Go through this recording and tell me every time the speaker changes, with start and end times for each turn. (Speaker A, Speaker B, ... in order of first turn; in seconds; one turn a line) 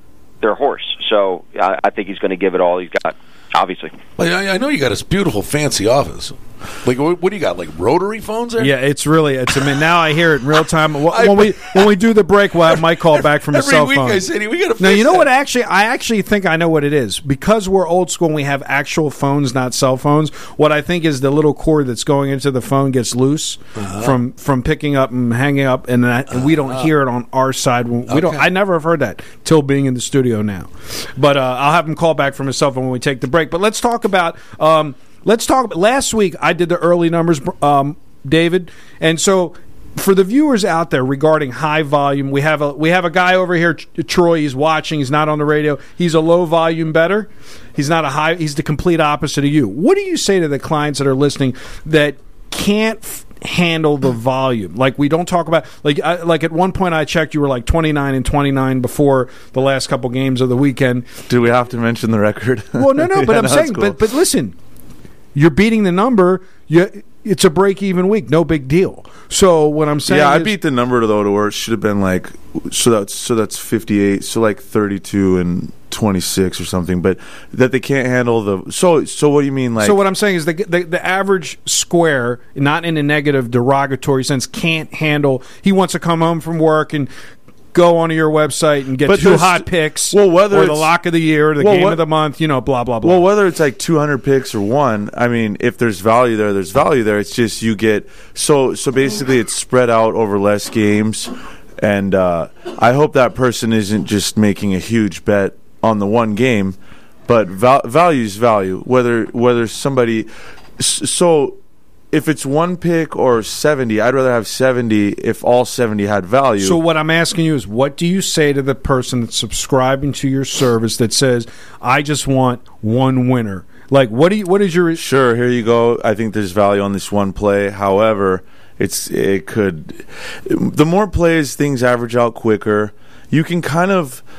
Speaker A: 0.4-4.0
Speaker B: 4.2-8.7
Speaker C: 8.6-14.2
Speaker B: 11.1-11.9
Speaker B: 12.7-15.3
Speaker C: 14.8-61.1
Speaker B: 23.8-24.1
Speaker B: 26.4-26.9
Speaker B: 28.1-28.4
Speaker D: 61.3-64.0
Speaker C: 62.7-64.5
Speaker C: 65.3-70.5
Speaker D: 70.1-80.0
Speaker C: 79.8-87.1
Speaker C: 87.7-93.2
Speaker D: 89.0-90.9
Speaker D: 91.6-92.0
Speaker D: 93.0-111.6
Speaker D: 112.1-116.8
Speaker C: 116.6-125.0
Speaker D: 125.0-134.2